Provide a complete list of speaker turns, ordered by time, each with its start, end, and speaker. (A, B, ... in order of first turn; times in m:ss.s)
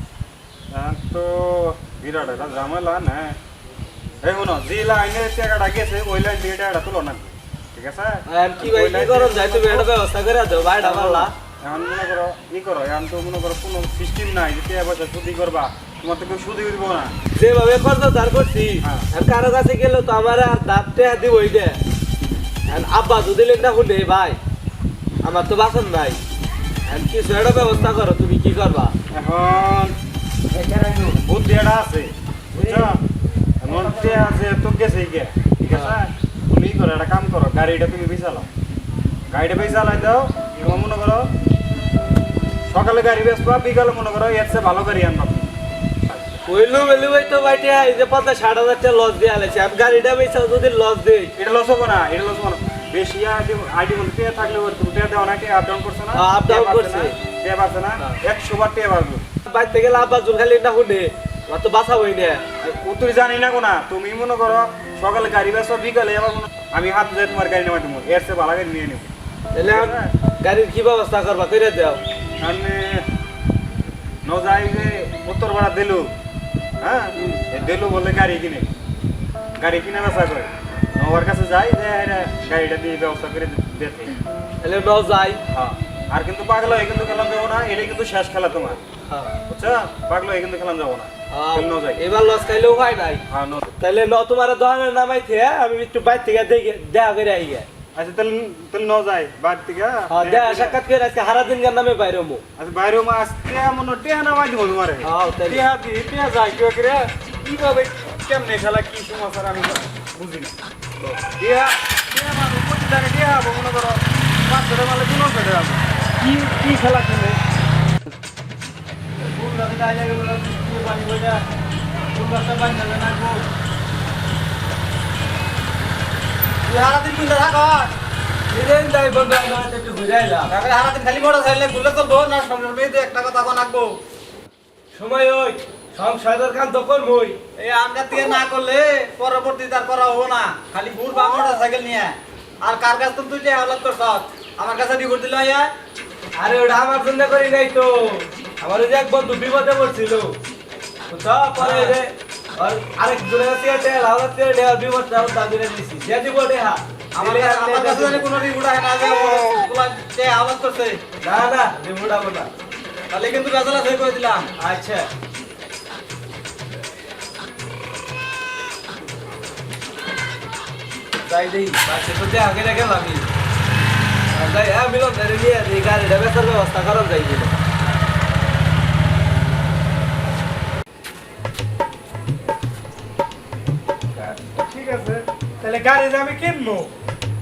0:00.7-0:03.4 A
0:04.2-0:09.9 A
0:08.3-0:11.3 B
0:10.8-0:17.1 A
0:17.4-0:21.8 B
0:18.8-0:19.1 A
0:22.7-0:24.4 B
0:25.2-0:26.2 B
0:26.9-0:28.9 B
0:29.1-0:29.9 A
0:30.6-0:33.0 A
0:33.6-0:38.5 A
0:35.7-0:36.0 B
0:39.3-0:41.3 A
0:42.7-0:45.5 A
0:46.5-0:51.3 B
0:51.4-0:59.2 A
0:56.1-0:57.1 B
0:59.5-1:02.4 B
1:02.6-1:10.1 A
1:09.5-1:12.0 B
1:12.4-1:13.0 A
1:14.2-1:16.1 A
1:16.8-1:18.7 A
1:17.1-1:17.4 B
1:19.6-1:24.2 A
1:24.6-1:25.4 B
1:25.5-1:28.8 A
1:29.1-1:29.4 B
1:29.4-1:32.0 A
1:31.3-1:33.2 B
1:33.3-1:33.7 A
1:33.8-1:37.7 B
1:37.9-1:40.8 A
1:40.1-1:42.4 B
1:42.6-1:50.5 A
1:45.0-1:45.6 B
1:51.4-1:57.4 A
1:59.2-2:01.4 B
2:02.1-2:03.4 B
2:06.6-2:07.9 C
2:08.5-2:10.5 B
2:10.5-2:14.0 C
2:14.9-2:17.4 B
2:17.6-2:25.7 C
2:26.4-2:30.4 B
2:31.1-2:38.3 B
2:31.6-2:31.9 A
2:37.2-2:41.0 C
2:41.2-2:42.5 B
2:43.1-2:44.5 C
2:44.6-2:45.1 B
2:51.2-2:53.3 B
2:54.3-2:57.6 B
3:04.1-3:06.9 D